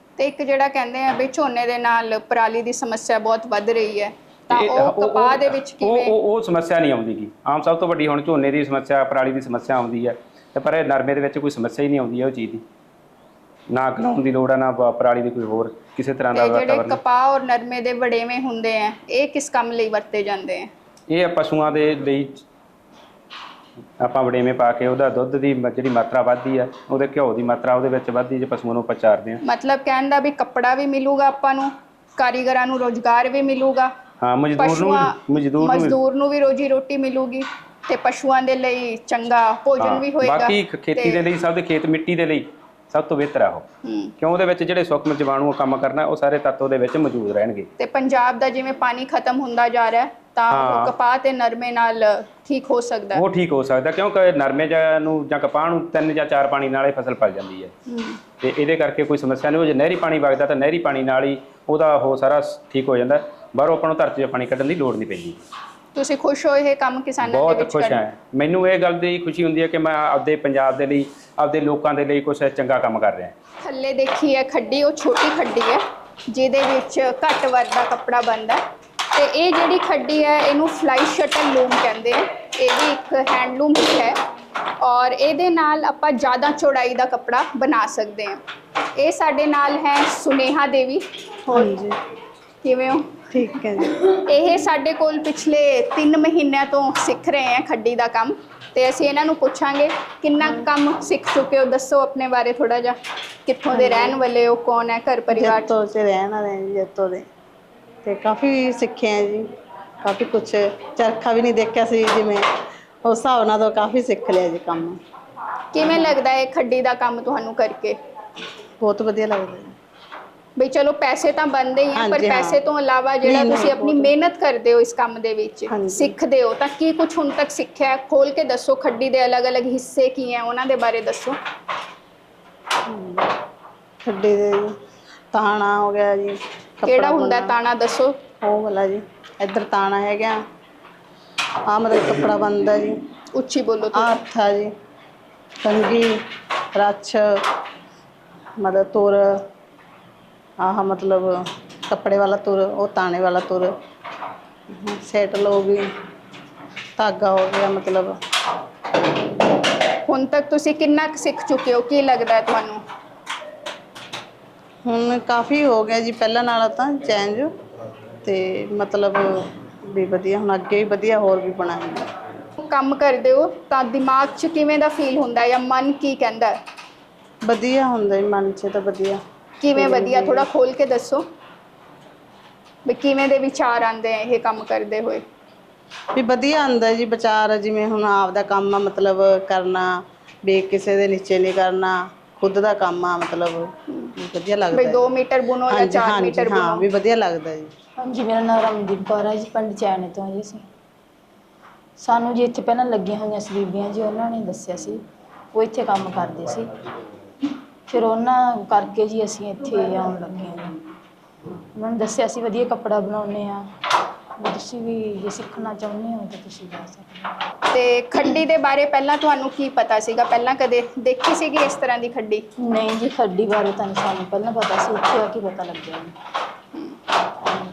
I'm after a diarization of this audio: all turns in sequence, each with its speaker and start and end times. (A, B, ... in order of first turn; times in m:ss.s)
0:00.2-0:06.1 A
0:04.5-0:12.6 B
0:13.7-0:17.0 B
0:16.3-0:20.7 A
0:21.1-0:22.4 B
0:24.0-0:29.4 B
0:29.4-0:33.9 A
0:34.2-0:36.0 B
0:34.6-0:41.3 A
0:39.8-0:43.6 B
0:43.8-0:44.1 A
0:44.2-0:47.7 B
0:47.8-0:53.2 A
0:50.5-0:50.9 B
0:53.1-0:57.7 B
0:57.9-0:58.2 A
0:58.4-1:05.4 B
1:05.9-1:08.0 A
1:07.2-1:13.3 B
1:13.6-1:18.6 A
1:19.1-1:24.2 A
1:24.8-1:28.4 A
1:29.0-1:31.7 A
1:31.5-1:31.9 C
1:32.6-1:33.1 A
1:33.3-1:34.0 C
1:34.0-1:45.7 A
1:43.7-1:44.2 C
1:45.3-1:47.2 C
1:48.0-1:49.4 C
1:50.0-1:52.4 C
1:53.0-1:55.0 C
1:55.7-1:58.0 A
1:55.9-1:56.1 C
1:58.8-1:59.7 C
2:00.6-2:11.4 A
2:02.0-2:02.6 C
2:03.2-2:04.1 C
2:05.7-2:06.1 C
2:12.9-2:13.2 C
2:14.0-2:14.7 C
2:15.3-2:17.5 C
2:16.8-2:18.2 A
2:18.4-2:20.4 C
2:21.7-2:22.9 C
2:23.3-2:24.2 A
2:24.0-2:24.7 C
2:25.6-2:26.1 C
2:26.7-2:27.2 C
2:28.6-2:29.4 C
2:30.6-2:31.3 C
2:31.9-2:33.7 C
2:34.7-2:35.8 C
2:37.0-2:38.1 C
2:40.1-2:42.8 A
2:44.8-2:47.5 C
2:48.2-2:49.2 C
2:49.9-2:52.1 C
2:52.6-2:56.6 A
2:57.4-2:59.2 C
2:59.6-3:01.2 A
2:59.8-3:00.4 C
3:02.8-3:05.2 A
3:06.2-3:15.0 C
3:14.7-3:16.8 A
3:15.7-3:17.7 C
3:18.0-3:20.6 D
3:22.0-3:25.0 D
3:25.5-3:26.7 D
3:27.9-3:30.8 D
3:31.8-3:33.6 D
3:34.4-3:37.4 D
3:37.7-3:42.4 A
3:42.6-3:46.1 D